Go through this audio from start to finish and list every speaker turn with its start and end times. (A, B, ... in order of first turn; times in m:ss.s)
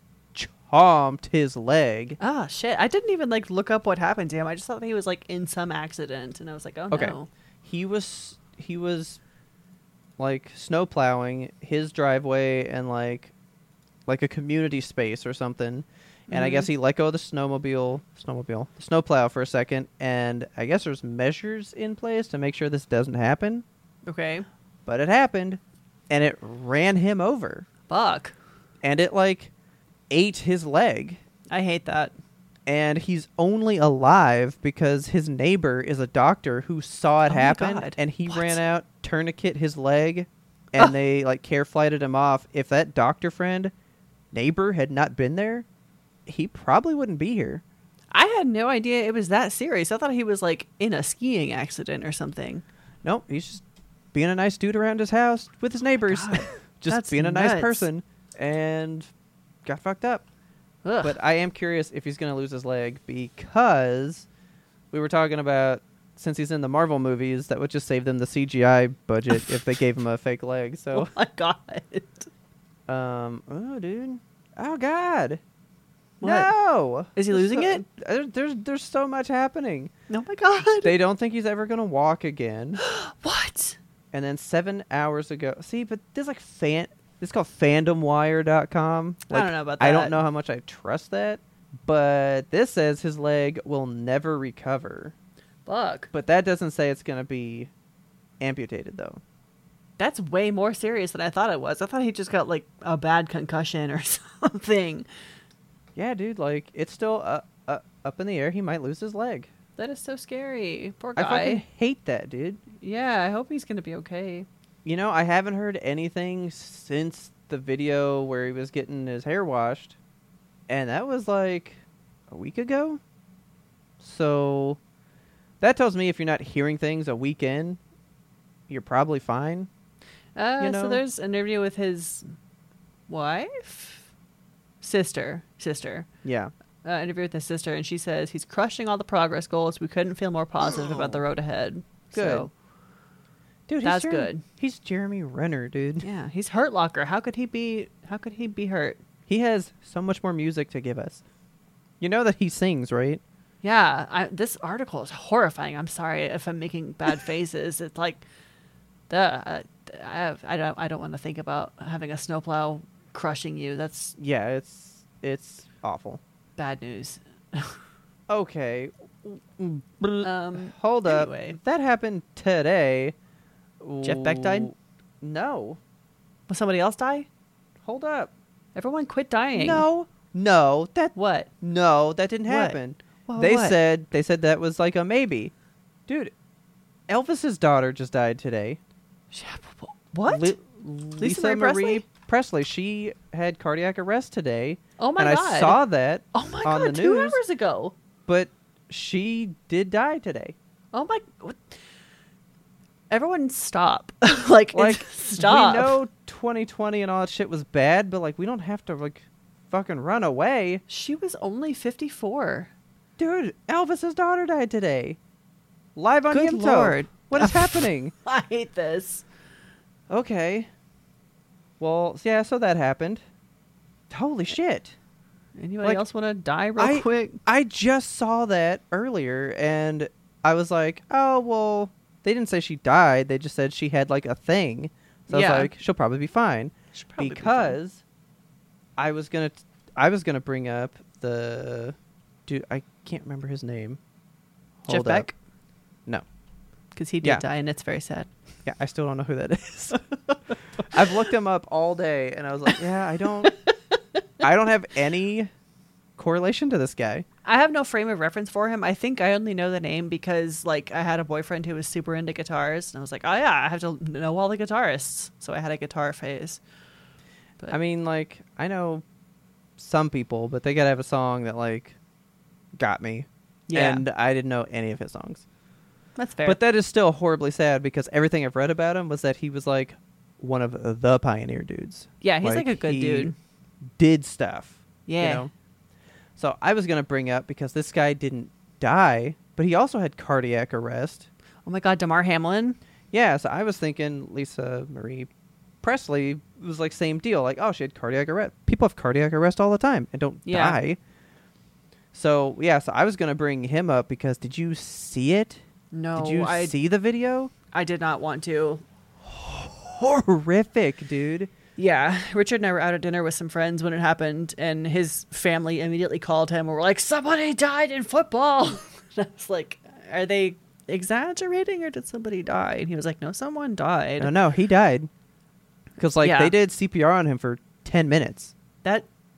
0:00.3-0:02.2 A
0:02.2-0:07.3 B
0:06.9-0:09.2 A
0:10.2-0:13.3 A
0:14.1-0:23.6 A
0:16.3-0:16.7 B
0:24.0-0:24.4 B
0:24.8-0:27.7 A
0:27.9-0:28.3 B
0:28.8-0:29.5 A
0:30.1-0:31.2 A
0:31.5-0:32.1 B
0:32.7-0:43.7 A
0:37.3-0:38.6 B
0:44.3-0:45.7 A
0:46.2-0:47.6 A
0:48.1-0:52.6 B
0:53.0-0:53.6 A
0:54.1-0:59.1 A
0:56.1-0:57.9 B
0:59.6-1:00.2 A
1:00.8-1:01.2 B
1:01.0-1:04.2 A
1:04.9-1:11.1 A
1:10.9-1:12.3 B
1:12.9-1:15.4 A
1:16.2-1:16.5 B
1:16.2-1:19.9 A
1:17.1-1:17.8 B
1:20.1-1:20.9 B
1:20.8-1:22.8 A
1:22.8-1:23.8 B
1:24.1-1:35.1 A
1:29.3-1:30.2 B
1:35.7-1:36.1 B
1:36.1-1:37.7 A
1:38.4-1:39.2 A
1:40.0-1:45.1 B
1:46.0-1:49.5 A
1:49.8-1:51.6 B
1:51.2-1:52.6 A
1:52.8-1:54.5 B
1:54.8-2:00.0 A
2:00.7-2:03.0 A
2:04.0-2:04.8 A
2:05.6-2:07.8 A
2:08.7-2:09.7 A
2:10.4-2:12.2 B
2:10.6-2:11.0 A
2:13.1-2:14.0 B
2:14.8-2:16.1 B
2:16.2-2:16.5 A
2:16.8-2:22.5 B
2:20.6-2:21.2 A
2:22.1-2:22.5 A
2:23.7-2:26.1 A
2:23.8-2:24.4 B
2:26.0-2:29.0 B
2:29.3-2:31.2 A
2:32.0-2:33.2 A
2:33.6-2:38.2 B
2:39.1-2:44.2 B
2:44.2-2:46.2 A
2:46.6-2:47.8 B
2:48.3-2:53.2 A
2:50.2-2:51.6 B
2:53.8-2:55.8 A
2:54.0-2:54.7 B
2:56.5-2:57.3 B
2:57.8-2:58.3 A
2:58.8-2:59.8 B
2:59.6-3:05.5 A
3:01.2-3:01.5 B
3:02.5-3:03.8 B
3:06.1-3:06.3 A
3:07.1-3:08.8 A
3:09.3-3:10.5 B
3:10.3-3:17.4 A
3:11.2-3:12.0 B
3:15.0-3:17.9 B
3:18.2-3:20.6 A
3:20.9-3:21.7 B
3:23.1-3:26.0 B
3:24.7-3:30.8 A
3:30.9-3:32.7 B
3:33.2-3:35.2 A
3:36.0-3:38.1 A
3:36.3-3:39.2 B
3:40.1-3:40.7 A
3:41.8-3:43.2 A
3:44.1-3:44.9 A
3:45.6-3:47.4 B
3:46.8-3:58.0 A
3:55.3-3:55.7 B
3:56.9-3:57.8 B
3:59.0-4:01.9 A
4:02.5-4:04.0 A
4:04.8-4:05.3 A
4:04.9-4:05.4 B
4:06.9-4:08.3 B
4:08.6-4:10.0 A
4:10.8-4:13.5 A
4:13.4-4:13.7 B
4:14.4-4:15.5 A
4:16.2-4:17.2 A
4:17.4-4:26.6 B
4:27.7-4:29.0 A
4:29.8-4:32.0 A
4:32.8-4:35.4 A
4:33.7-4:34.0 B
4:36.2-4:36.6 B
4:36.4-4:43.3 A
4:42.2-4:43.4 B
4:43.9-4:45.5 A
4:45.1-4:45.5 B
4:46.4-4:51.3 A
4:51.6-4:52.8 B
4:53.1-4:55.3 A
4:55.8-5:01.0 A
5:00.4-5:00.8 B
5:02.1-5:05.6 A
5:05.9-5:06.8 B
5:06.2-5:07.5 A
5:07.7-5:08.8 B
5:09.2-5:11.5 A
5:11.8-5:24.3 B
5:24.2-5:25.1 A
5:26.0-5:28.5 A
5:26.2-5:26.5 B